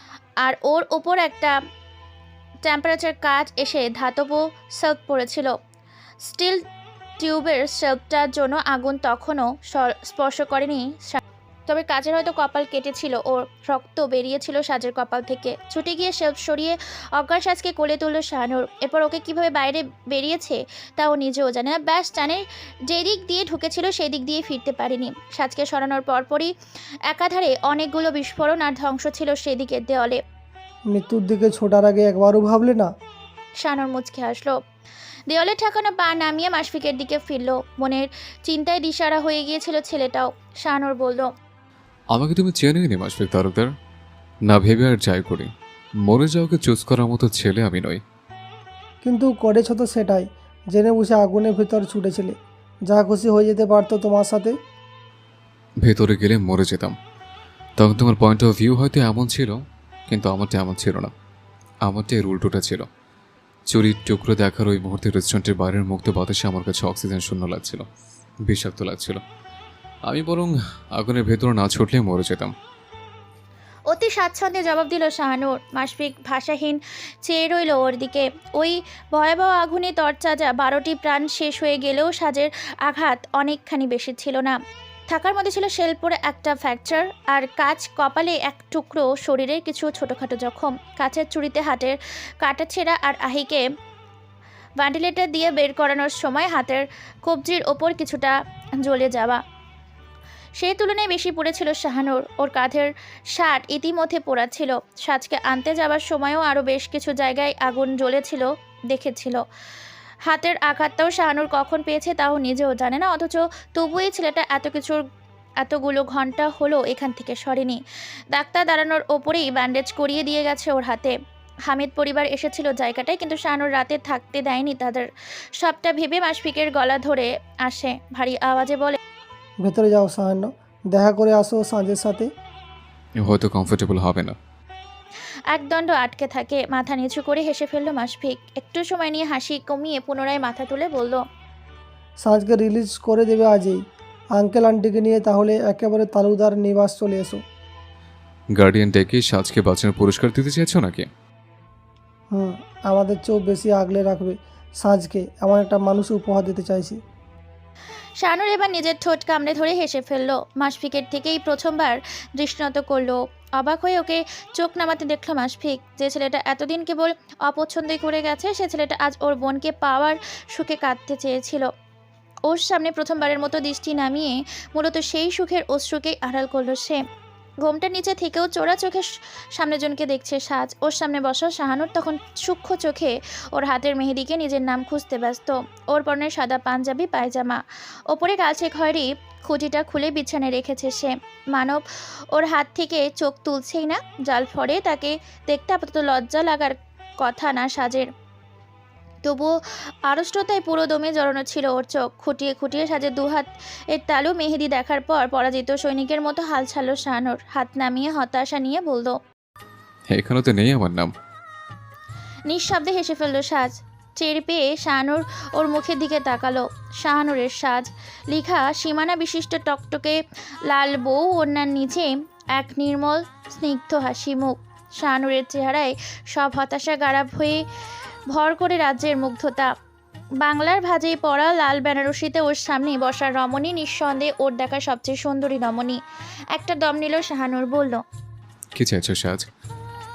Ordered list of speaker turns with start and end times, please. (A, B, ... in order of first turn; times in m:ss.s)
0:00.4-0:01.5 A
0:02.6-0:05.5 A
0:06.2-0:06.6 A
0:07.2-0:26.5 A
0:27.1-0:30.2 A
0:30.9-0:32.9 B
0:33.6-0:34.5 A
0:35.3-0:41.3 A
0:42.1-0:43.7 C
0:44.5-0:45.5 C
0:46.0-0:48.0 C
0:49.0-0:52.3 B
0:52.9-0:54.5 B
0:55.8-0:56.9 C
0:57.8-0:59.6 C
1:00.1-1:01.1 C
1:01.8-1:02.8 C
1:03.7-1:07.8 C
1:08.5-1:09.2 C
1:10.1-1:12.5 C
1:13.9-1:24.6 A
1:25.1-1:33.6 A
1:34.8-1:39.4 A
1:40.6-1:49.4 A
1:50.3-1:55.0 A
1:55.6-1:57.8 A
1:58.3-2:01.1 A
2:01.7-2:05.0 A
2:05.6-2:09.0 A
2:09.6-2:12.3 B
2:13.2-2:14.4 C
2:15.5-2:21.2 A
2:22.2-2:23.8 B
2:24.3-2:27.4 B
2:28.5-2:31.1 C
2:32.3-2:37.0 B
2:38.2-2:51.7 A
2:52.5-2:57.0 A
2:57.6-3:18.1 A
3:19.2-3:19.5 A
3:20.1-3:29.2 A
3:30.1-3:31.1 C
3:32.5-3:40.2 A
3:40.7-3:47.6 A
3:48.3-3:49.7 A
3:50.4-3:56.0 A
3:56.5-3:58.0 A
3:58.8-3:59.4 C